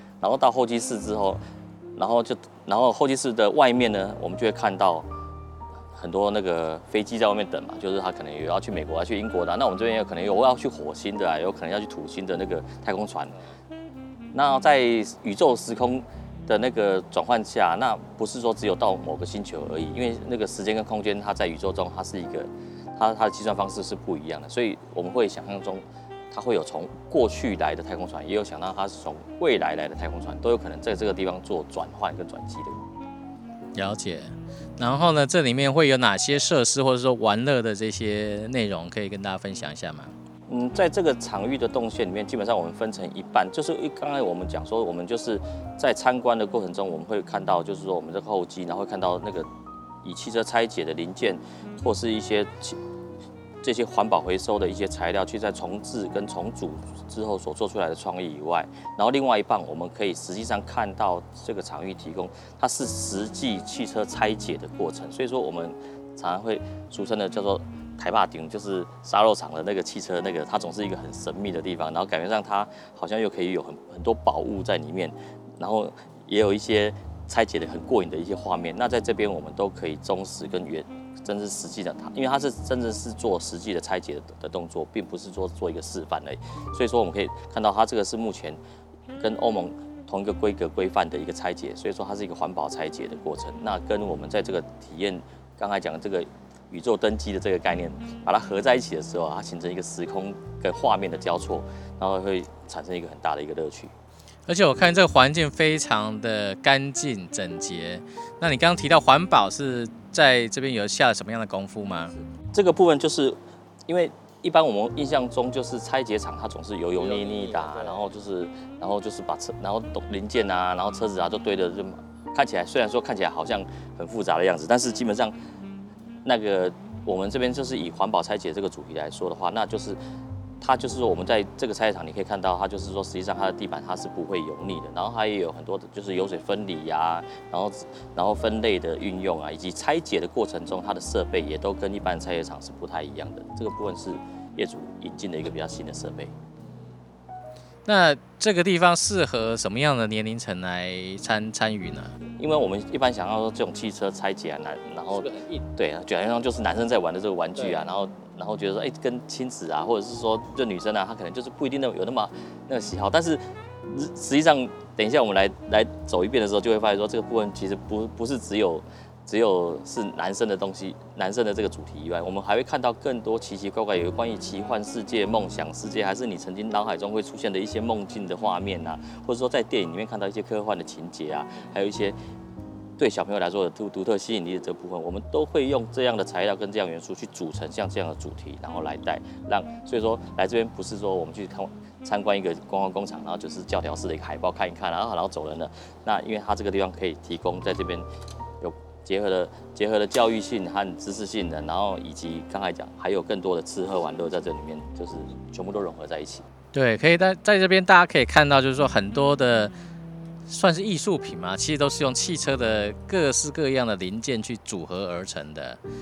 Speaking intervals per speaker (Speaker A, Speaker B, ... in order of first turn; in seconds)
Speaker A: 0.2-1.4, 2.0-5.1, 6.0-13.4, 14.3-32.8, 40.5-49.5, 50.0-52.8, 53.6-88.6, 89.2-103.9, 112.5-125.3, 126.2-130.0, 130.6-146.3, 152.3-182.2, 183.0-198.1, 198.6-206.5
Speaker B: 33.8-40.1, 104.5-112.1, 117.2-118.0, 147.9-152.2, 155.2-155.6, 157.6-157.9, 206.7-209.7, 210.5-215.8